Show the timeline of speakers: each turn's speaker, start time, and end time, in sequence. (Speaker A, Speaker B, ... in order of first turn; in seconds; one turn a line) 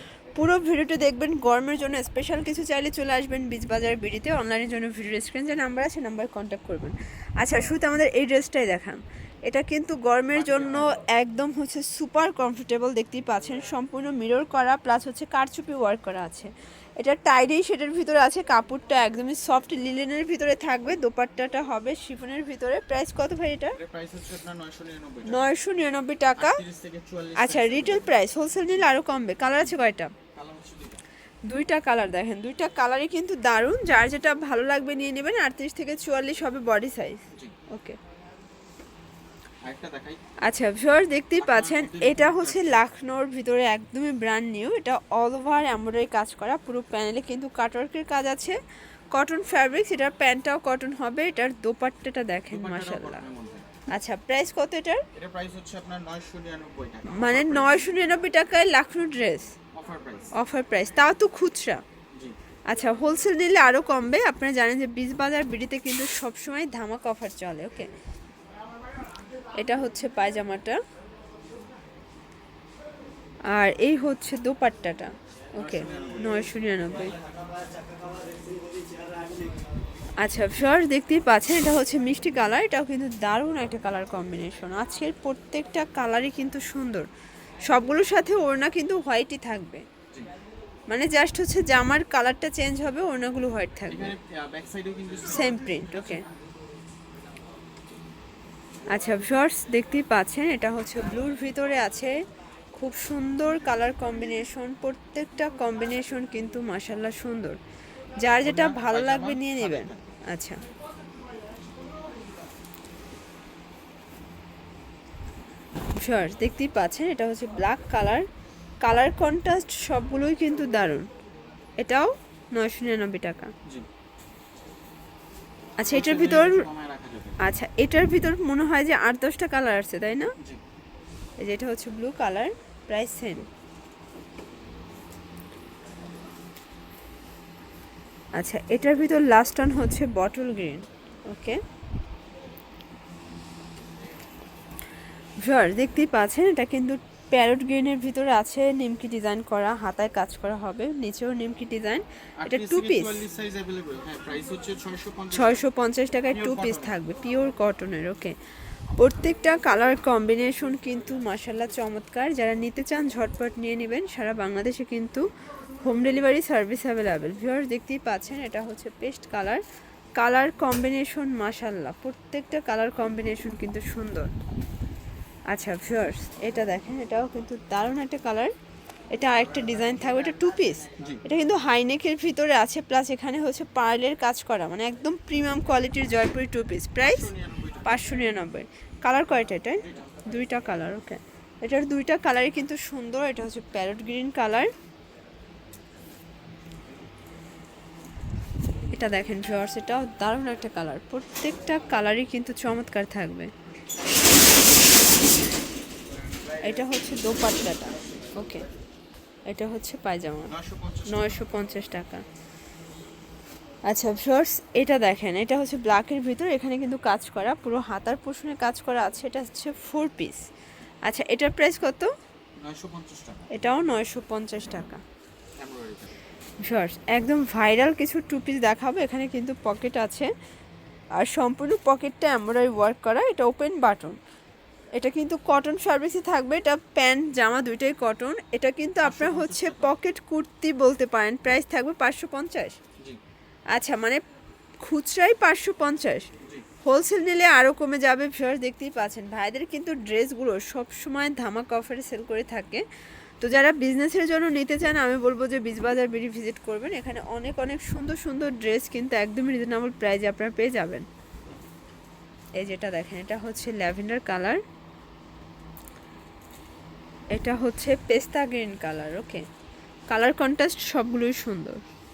Speaker A: 0.3-23.8
Speaker B: 10.3-11.0
Speaker B: 23.8-25.4
Speaker A: 25.2-26.6
Speaker B: 26.4-28.1
Speaker A: 27.4-30.1
Speaker B: 30.3-31.0
Speaker A: 31.5-38.0
Speaker B: 39.6-40.2
Speaker A: 40.4-48.6
Speaker B: 41.4-42.8
Speaker A: 49.1-53.2
Speaker B: 52.5-53.7
Speaker A: 53.9-55.0
Speaker B: 55.1-58.0
Speaker A: 57.1-59.5
Speaker B: 59.7-60.3
Speaker A: 60.3-61.8
Speaker A: 62.7-67.9
Speaker A: 69.6-70.8
Speaker A: 73.5-77.2
Speaker B: 75.6-76.5
Speaker A: 80.2-87.1
Speaker A: 87.7-89.8
Speaker A: 90.9-94.2
Speaker B: 93.9-96.2
Speaker A: 95.3-96.2
Speaker A: 98.9-102.2
Speaker A: 102.7-107.6
Speaker A: 108.2-110.6
Speaker B: 108.4-110.2
Speaker A: 116.0-118.2
Speaker A: 118.8-121.1
Speaker A: 121.8-123.5
Speaker A: 125.8-126.7
Speaker B: 125.8-127.4
Speaker A: 127.4-130.3
Speaker A: 131.4-133.5
Speaker A: 138.3-141.6
Speaker A: 145.4-153.2
Speaker B: 152.4-155.6
Speaker A: 155.3-158.3
Speaker B: 156.3-157.0
Speaker A: 159.0-165.2
Speaker A: 165.8-169.6
Speaker A: 170.2-174.3
Speaker A: 175.5-178.5
Speaker A: 179.1-187.3
Speaker B: 179.7-181.2
Speaker B: 187.0-188.2
Speaker A: 187.8-194.7
Speaker B: 189.8-190.3
Speaker A: 198.9-203.5
Speaker A: 206.6-208.6
Speaker A: 209.5-210.5
Speaker B: 210.5-211.5
Speaker A: 211.1-212.2
Speaker A: 213.8-220.4
Speaker A: 221.1-222.1
Speaker B: 222.6-223.5
Speaker A: 223.5-225.0
Speaker B: 225.6-226.1
Speaker A: 226.6-230.3
Speaker A: 231.2-234.2
Speaker A: 234.9-242.8
Speaker B: 239.0-239.9
Speaker A: 243.7-244.2
Speaker A: 244.8-246.3
Speaker A: 246.8-252.8
Speaker A: 253.4-261.1
Speaker A: 262.6-264.6
Speaker A: 267.3-269.4
Speaker A: 270.1-271.8